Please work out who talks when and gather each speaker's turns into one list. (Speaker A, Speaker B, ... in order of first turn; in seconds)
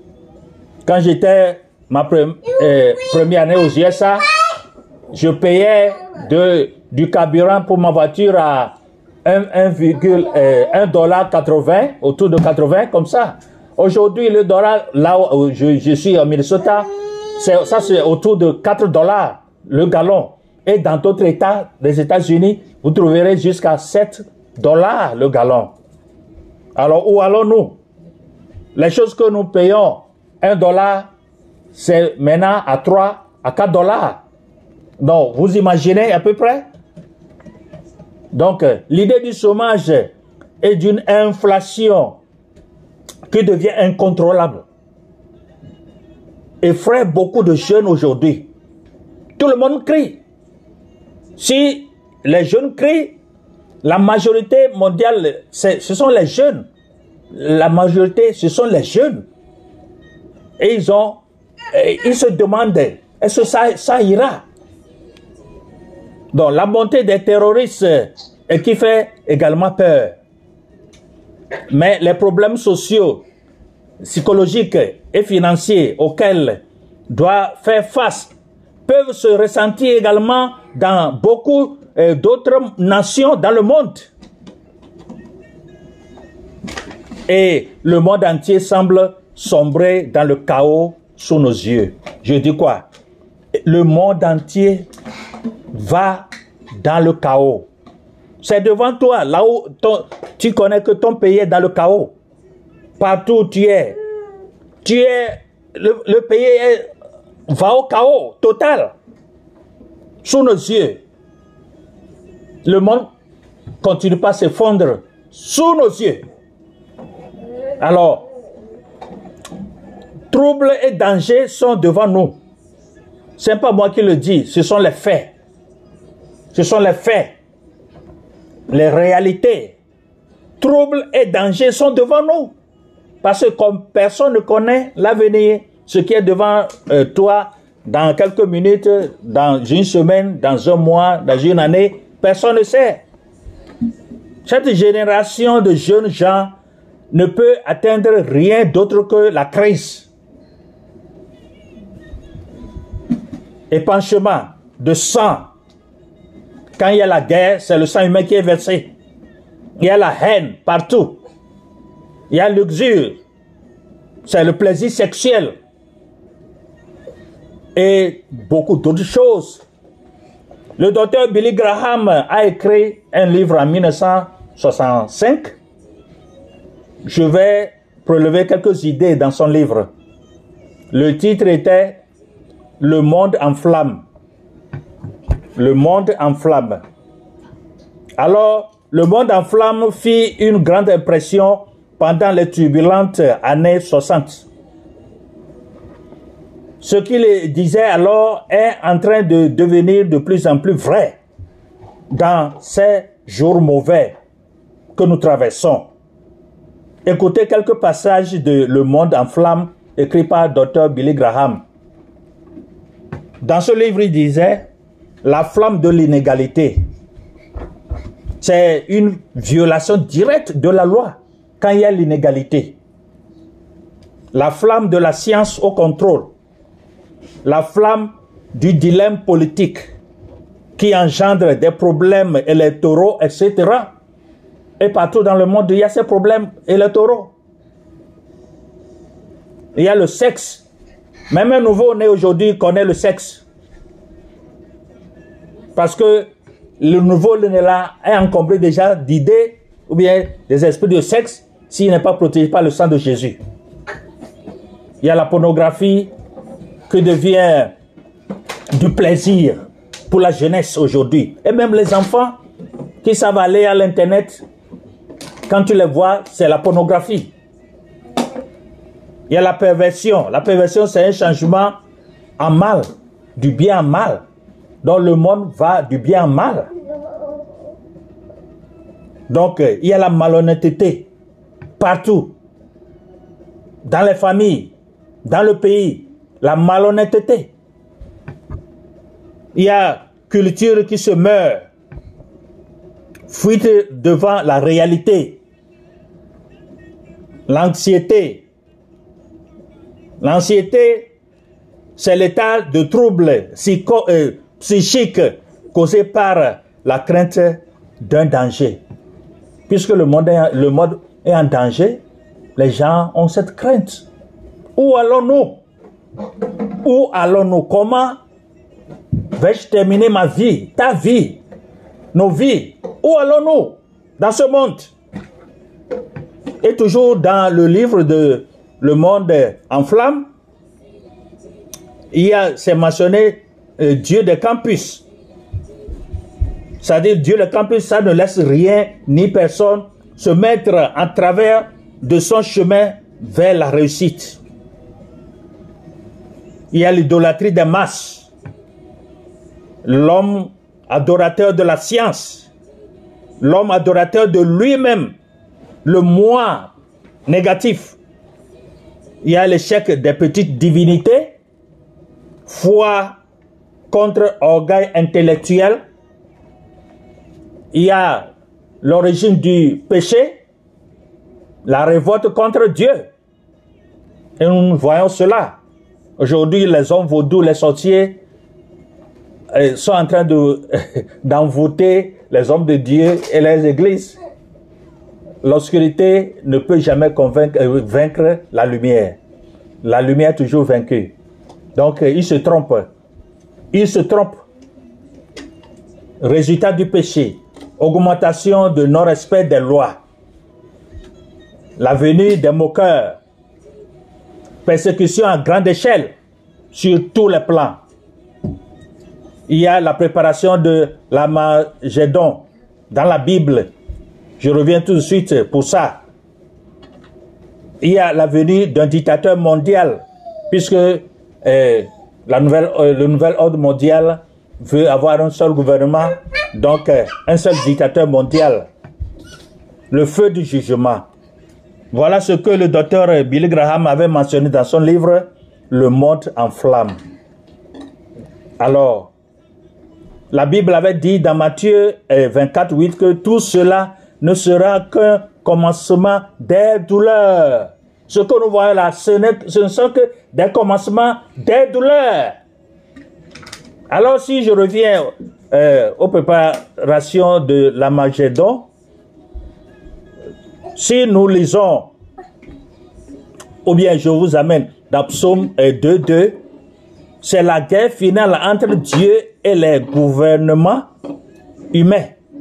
Speaker A: 0.8-4.3, 5.1-8.7, 9.2-25.7, 26.8-27.8, 28.7-31.1, 31.7-34.2, 35.0-36.6, 38.3-42.2, 43.3-44.6, 46.6-48.5, 49.4-50.2, 51.4-53.2, 53.8-56.7, 57.3-59.2, 60.6-61.2, 61.7-64.4, 66.3-70.2, 71.7-73.2, 74.0-78.3, 78.8-84.1, 87.3-92.8, 93.6-94.9, 95.7-97.7, 98.4-102.1, 103.0-104.0, 104.8-106.9, 107.5-108.9, 110.2-111.0, 112.6-113.1, 113.8-116.2, 117.8-118.2, 120.3-122.4, 123.4-125.3, 126.5-127.3, 128.7-129.8, 130.6-132.5, 133.2-143.0, 144.4-146.6, 147.1-150.1, 153.7-155.5, 156.8-158.9, 159.8-161.2, 162.3-163.2, 164.2-165.5, 167.8-169.6, 170.8-175.6, 177.0-179.9, 180.9-182.0, 182.8-184.0, 185.6-186.8, 188.2-194.5, 196.8-201.2, 202.1-204.1, 204.9-205.9, 207.0-211.6, 213.4-214.7, 215.2-216.8, 218.4-222.8, 224.3-226.3, 227.4-229.9, 230.8-233.9, 234.8-237.3, 239.7-240.6, 241.3-243.4, 245.8-253.4, 255.0-256.1, 256.9-257.7, 258.7-262.4, 263.0-264.4, 265.5-267.3, 269.3-271.8, 272.4-272.9, 273.4-274.2, 274.8-276.7, 279.3-281.1, 281.8-282.3, 283.8-284.7, 285.2-287.5, 289.5-291.7, 293.3-295.4, 297.5-298.4, 300.2-301.1, 302.0-308.8, 309.7-312.0, 312.6-314.1, 314.8-315.6, 316.8-318.2, 319.3-321.4, 322.1-324.9, 326.6-330.3, 332.1-335.0, 336.8-344.4, 346.7-348.3, 349.8-352.5, 353.4-355.1, 355.8-356.7, 357.3-358.0, 359.2-361.3, 362.4-363.2, 363.9-365.8, 367.7-368.3, 368.8-370.4, 371.6-373.1, 374.4-375.6, 376.2-378.2, 379.5-384.2, 385.4-389.2, 389.8-391.1, 391.7-392.9, 393.7-394.4, 396.2-400.0, 401.8-403.2, 404.6-406.1, 406.7-407.8, 409.5-413.7, 414.4-416.0, 417.8-428.7, 429.9-431.1, 431.9-437.0, 438.6-439.1, 440.3-452.4, 453.9-458.7, 460.8-461.9, 463.6-466.4, 467.2-470.9, 471.7-472.1